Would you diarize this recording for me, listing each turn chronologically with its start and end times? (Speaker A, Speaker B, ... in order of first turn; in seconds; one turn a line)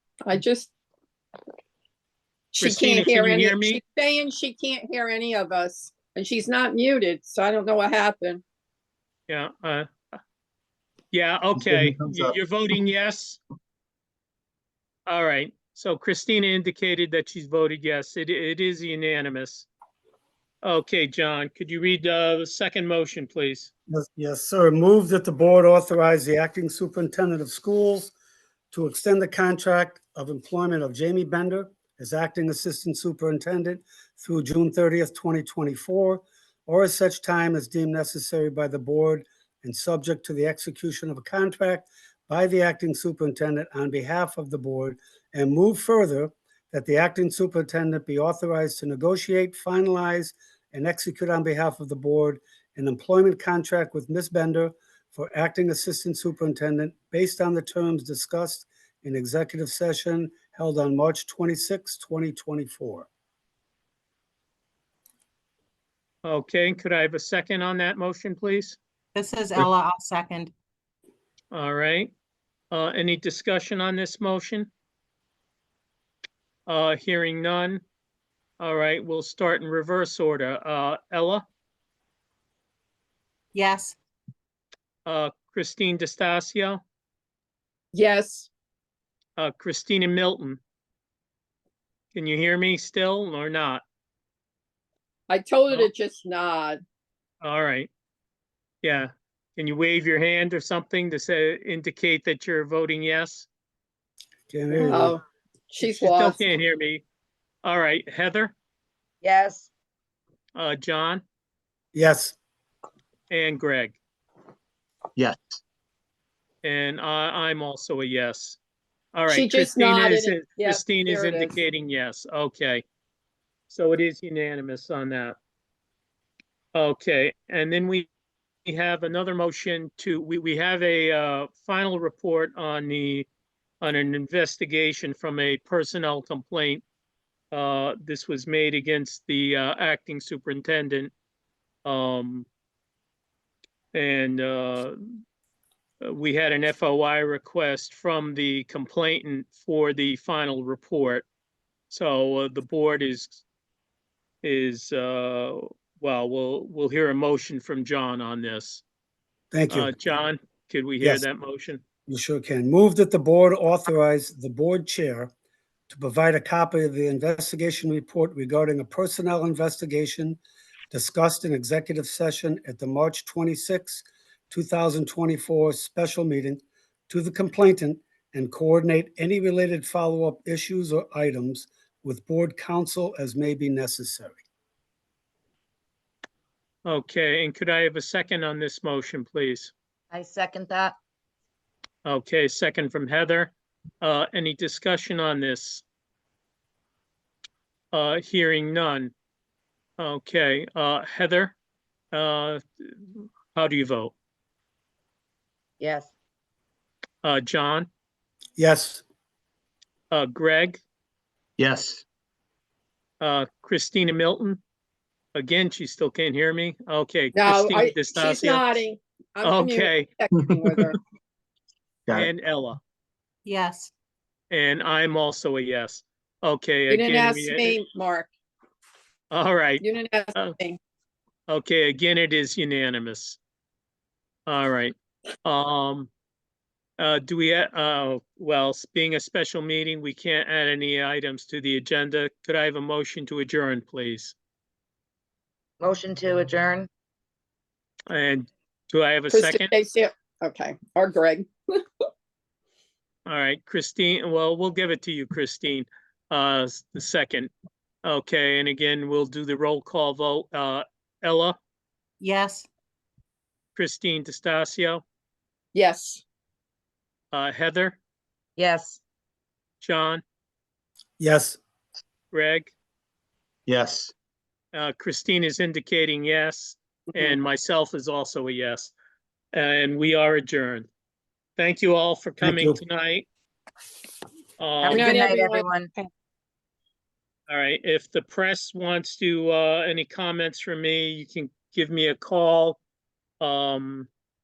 Speaker A: 0.2-0.7
Speaker A: 2.5-8.4
Speaker B: 2.6-3.8
Speaker B: 9.3-9.9
Speaker B: 11.1-13.4
Speaker C: 11.6-12.3
Speaker B: 15.1-19.7
Speaker B: 20.6-23.7
Speaker D: 23.9-28.1
Speaker D: 28.7-63.1
Speaker B: 66.2-68.8
Speaker E: 69.1-70.5
Speaker B: 71.5-72.1
Speaker B: 72.7-74.7
Speaker B: 76.7-77.8
Speaker B: 78.6-81.4
Speaker E: 83.5-84.0
Speaker B: 85.0-86.8
Speaker A: 87.9-88.5
Speaker B: 89.4-90.6
Speaker B: 92.1-93.8
Speaker A: 95.3-96.8
Speaker B: 97.4-97.9
Speaker B: 98.8-103.5
Speaker D: 104.5-105.1
Speaker F: 104.8-105.1
Speaker A: 104.9-106.4
Speaker B: 105.8-107.0
Speaker B: 107.6-108.5
Speaker F: 109.2-109.7
Speaker B: 110.5-111.2
Speaker D: 111.9-112.4
Speaker B: 113.3-114.0
Speaker C: 115.2-115.6
Speaker B: 116.6-118.6
Speaker B: 119.1-122.8
Speaker A: 119.3-121.5
Speaker B: 123.7-125.4
Speaker B: 126.7-128.1
Speaker B: 128.7-133.3
Speaker B: 133.8-136.8
Speaker B: 137.5-141.1
Speaker B: 141.8-142.5
Speaker B: 143.9-145.0
Speaker B: 146.0-151.3
Speaker B: 151.9-153.4
Speaker B: 154.4-158.8
Speaker D: 159.5-159.9
Speaker B: 159.7-161.8
Speaker D: 162.1-165.3
Speaker D: 165.9-170.4
Speaker D: 170.9-184.4
Speaker B: 186.8-189.7
Speaker F: 190.1-191.0
Speaker B: 192.0-195.8
Speaker B: 197.9-199.1
Speaker B: 200.0-201.6
Speaker B: 202.1-202.6
Speaker B: 203.5-204.1
Speaker F: 205.8-206.1
Speaker B: 207.2-207.9
Speaker D: 208.6-209.0
Speaker B: 210.1-210.8
Speaker C: 211.6-212.0
Speaker B: 213.2-214.6
Speaker B: 215.3-218.8
Speaker A: 217.4-221.0
Speaker B: 219.4-220.1
Speaker B: 222.1-222.8
Speaker E: 223.4-223.9
Speaker B: 224.5-227.8
Speaker A: 226.9-228.3
Speaker B: 229.3-230.6
Speaker A: 229.8-230.8
Speaker B: 231.5-233.4
Speaker B: 234.5-236.1
Speaker B: 237.0-244.3
Speaker F: 245.8-246.9
Speaker B: 248.1-249.7
Speaker A: 249.3-251.5
Speaker B: 253.3-257.5
Speaker B: 258.0-261.6
Speaker E: 262.2-262.7
Speaker B: 263.8-265.0
Speaker A: 265.7-266.2
Speaker B: 267.3-268.0
Speaker F: 268.6-269.0
Speaker B: 269.8-270.2
Speaker D: 271.2-271.6
Speaker B: 272.3-272.7
Speaker C: 273.7-274.1
Speaker B: 274.7-278.9
Speaker B: 279.5-280.9
Speaker B: 281.6-283.3
Speaker D: 282.4-282.8
Speaker B: 284.6-285.2
Speaker F: 284.8-285.9
Speaker A: 284.9-285.7
Speaker B: 287.5-292.8
Speaker B: 293.4-294.1